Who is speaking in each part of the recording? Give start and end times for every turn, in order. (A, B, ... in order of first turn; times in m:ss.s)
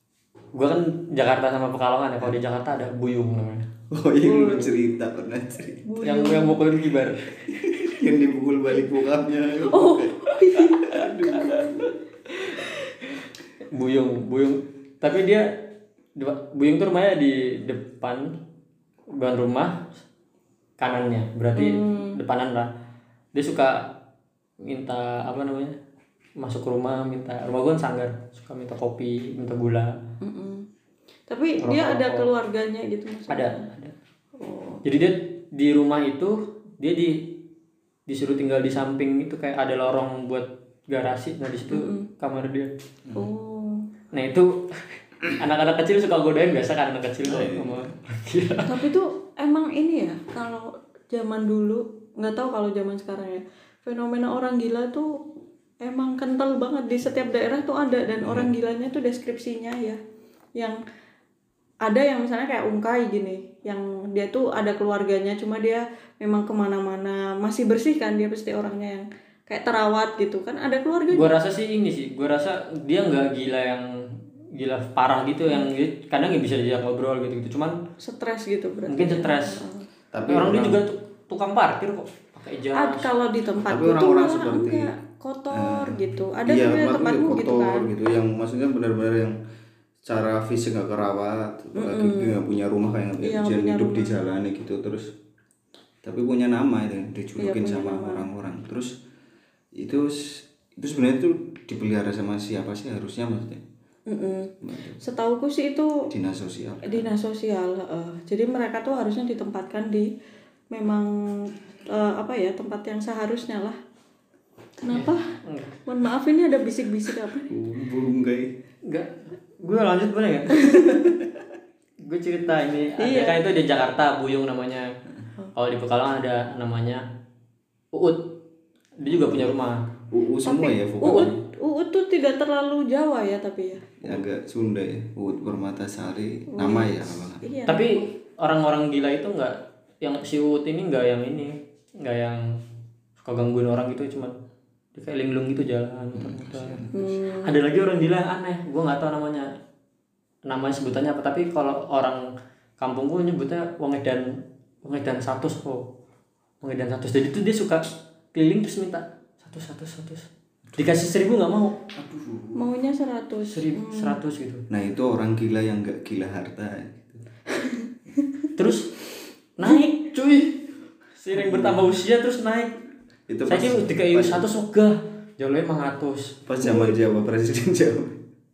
0:00.5-0:03.7 A
0:03.9-0:05.8 B
0:04.2-0:04.8 C
0:05.9-0:06.6 C
0:06.0-0:07.3 A
0:07.5-0:11.9 B
0:09.6-0:11.8 C
0:13.7-0:18.4 A
0:19.1-0:20.0 A
0:20.8-0:22.7 A
0:21.6-0:22.2 C
0:23.3-0:24.0 A
0:24.6-0:25.8 A
0:26.4-0:30.0 A
0:30.2-0:30.7 C
0:31.3-0:33.6 C
0:31.6-0:32.3 A
0:33.3-0:33.9 A
0:34.4-0:34.8 C
0:34.8-0:37.4 A
0:38.1-0:42.7 A
0:41.7-0:42.1 C
0:43.2-0:43.9 C
0:44.1-0:48.8 A
0:47.2-0:47.9 B
0:48.7-0:55.2 C
0:55.8-1:00.0 C
0:58.2-0:58.5 B
1:01.8-1:11.3 C
1:11.1-1:17.8 A
1:18.0-1:19.9 C
1:18.9-1:19.6 A
1:20.1-1:20.8 B
1:20.3-1:23.1 A
1:22.7-1:27.9 C
1:23.7-1:24.9 B
1:25.5-1:29.4 B
1:30.0-1:35.1 B
1:31.8-1:32.4 C
1:33.2-1:34.1 C
1:36.0-1:38.9 B
1:37.4-1:38.3 C
1:39.8-1:43.6 B
1:44.1-1:46.1 C
1:44.6-1:45.0 B
1:46.1-1:47.1 B
1:46.8-1:50.1 C
1:50.7-1:53.8 C
1:54.8-1:55.3 C
1:54.9-1:55.8 A
1:55.9-1:57.5 C
1:57.5-1:58.6 B
1:58.9-2:01.0 A
2:00.6-2:01.0 C
2:01.0-2:01.5 B
2:02.0-2:04.9 A
2:03.0-2:03.4 C
2:05.6-2:07.0 A
2:07.9-2:08.4 A
2:09.0-2:09.8 A
2:09.2-2:09.5 B
2:10.1-2:11.4 B
2:10.4-2:14.1 C
2:14.0-2:17.5 B
2:16.5-2:18.1 C
2:17.7-2:22.5 A
2:23.2-2:24.4 A
2:25.0-2:26.9 A
2:26.1-2:27.1 B
2:26.9-2:27.6 C
2:27.4-2:29.5 A
2:30.5-2:32.3 A
2:32.8-2:35.9 A
2:36.6-2:41.8 A
2:42.0-2:42.7 B
2:42.6-2:44.2 C
2:43.5-2:44.7 A
2:44.7-2:47.3 B
2:47.6-2:47.9 C
2:48.6-2:48.9 A
2:49.6-2:50.7 A
2:51.2-2:52.8 A
2:51.3-2:51.9 B
2:53.3-2:54.5 B
2:53.5-2:56.4 A
2:56.5-2:58.2 B
2:56.7-2:57.0 C